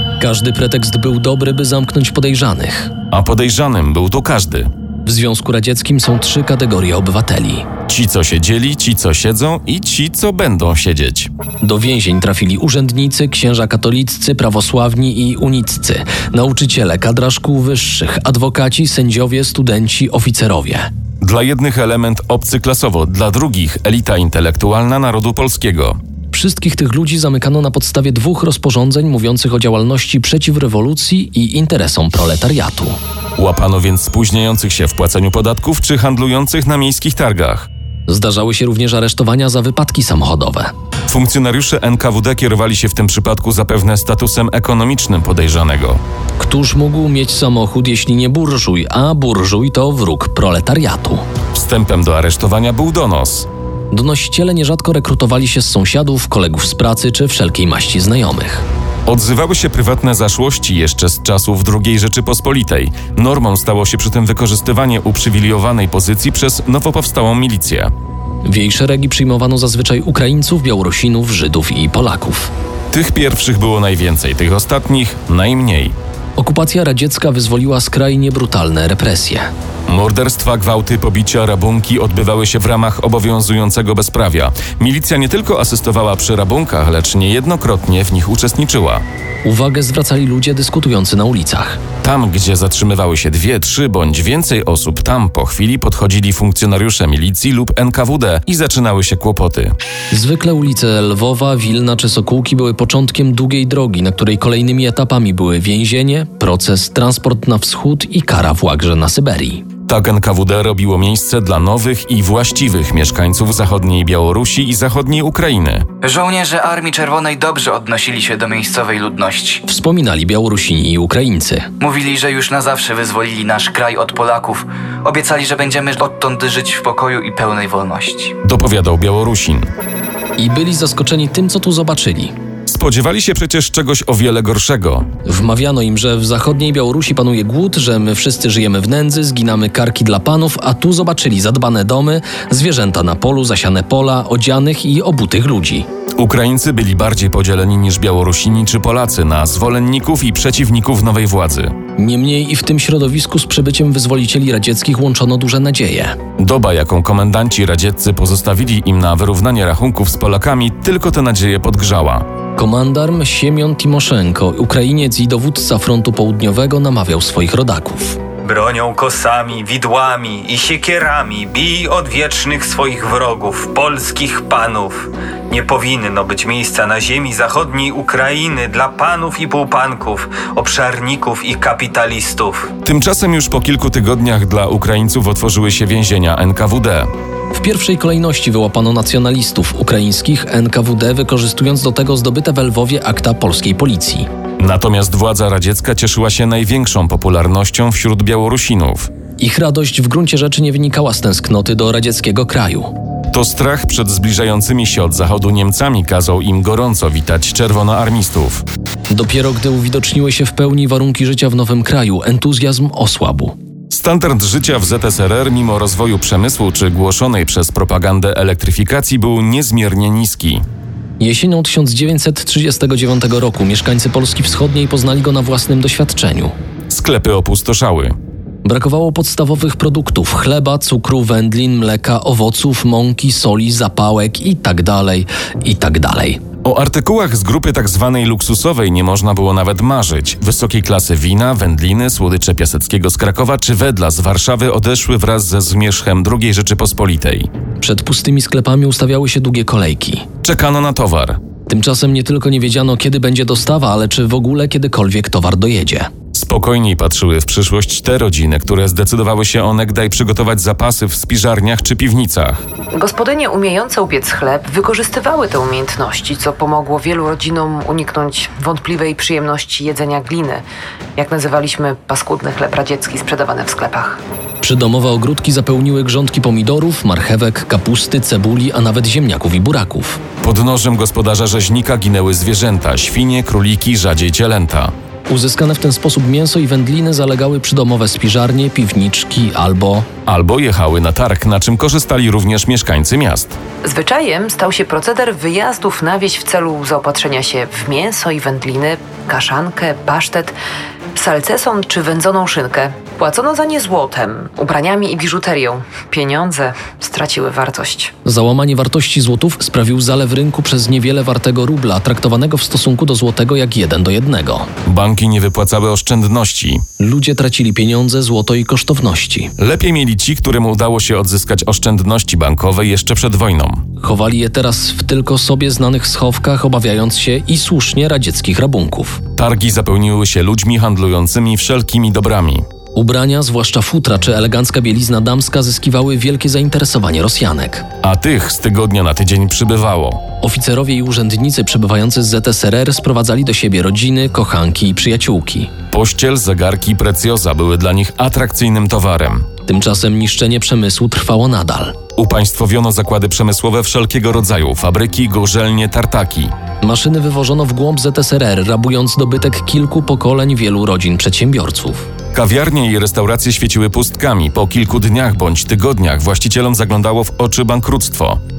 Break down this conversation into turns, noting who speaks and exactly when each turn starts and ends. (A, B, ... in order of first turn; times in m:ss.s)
0:00.2-0:02.9 A
0:03.1-0:04.7 B
0:05.0-0:07.7 A
0:07.9-0:11.3 B
0:11.6-0:20.9 A
0:21.2-0:26.0 B
0:26.3-0:33.0 A
0:33.4-0:37.7 B
0:38.1-0:40.7 A
0:41.1-0:46.0 B
0:46.4-0:51.2 A
0:51.5-0:53.5 B
0:53.9-0:58.6 A
0:59.1-1:07.9 B
1:08.4-1:12.5 A
1:12.9-1:16.0 B
1:16.4-1:19.5 A
1:19.9-1:29.0 B
1:29.4-1:31.8 A
1:32.0-1:39.8 B
1:40.1-1:49.6 A
1:49.9-1:55.9 B
1:56.0-1:59.6 C
1:59.7-2:01.7 A
2:01.8-2:08.4 C
2:08.4-2:09.7 B
2:10.4-2:12.3 A
2:12.7-2:15.1 B
2:15.2-2:25.9 A
2:26.2-2:31.8 B
2:32.0-2:36.2 A
2:36.4-2:42.3 B
2:42.6-2:48.2 A
2:48.4-3:02.7 D
3:02.8-3:07.1 B
3:07.5-3:14.3 A
3:14.6-3:19.1 B
3:19.4-3:22.9 A
3:23.3-3:28.6 B
3:29.1-3:33.6 A
3:33.9-3:40.6 B
3:41.2-3:46.5 A
3:46.9-3:48.2 B
3:48.6-3:56.4 A
3:56.6-4:07.5 B
4:07.8-4:10.3 A
4:10.4-4:11.4 B
4:11.7-4:16.1 A
4:16.3-4:22.6 B
4:22.9-4:30.6 E
4:31.2-4:34.2 E
4:34.6-4:40.2 A
4:40.4-4:44.9 B
4:45.3-4:50.1 A
4:50.3-4:53.6 B
4:53.8-5:00.6 E
5:01.2-5:08.1 E
5:08.2-5:14.7 A
5:14.9-5:16.8 B
5:17.0-5:19.5 A
5:19.6-5:23.9 B
5:24.0-5:29.2 A
5:29.4-5:32.7 B
5:33.0-5:37.9 A
5:38.0-5:40.2 B
5:40.4-5:45.7 A
5:45.9-5:49.5 B
5:49.7-5:52.0 A
5:52.2-5:56.5 B
5:56.8-6:02.1 A
6:02.3-6:08.4 B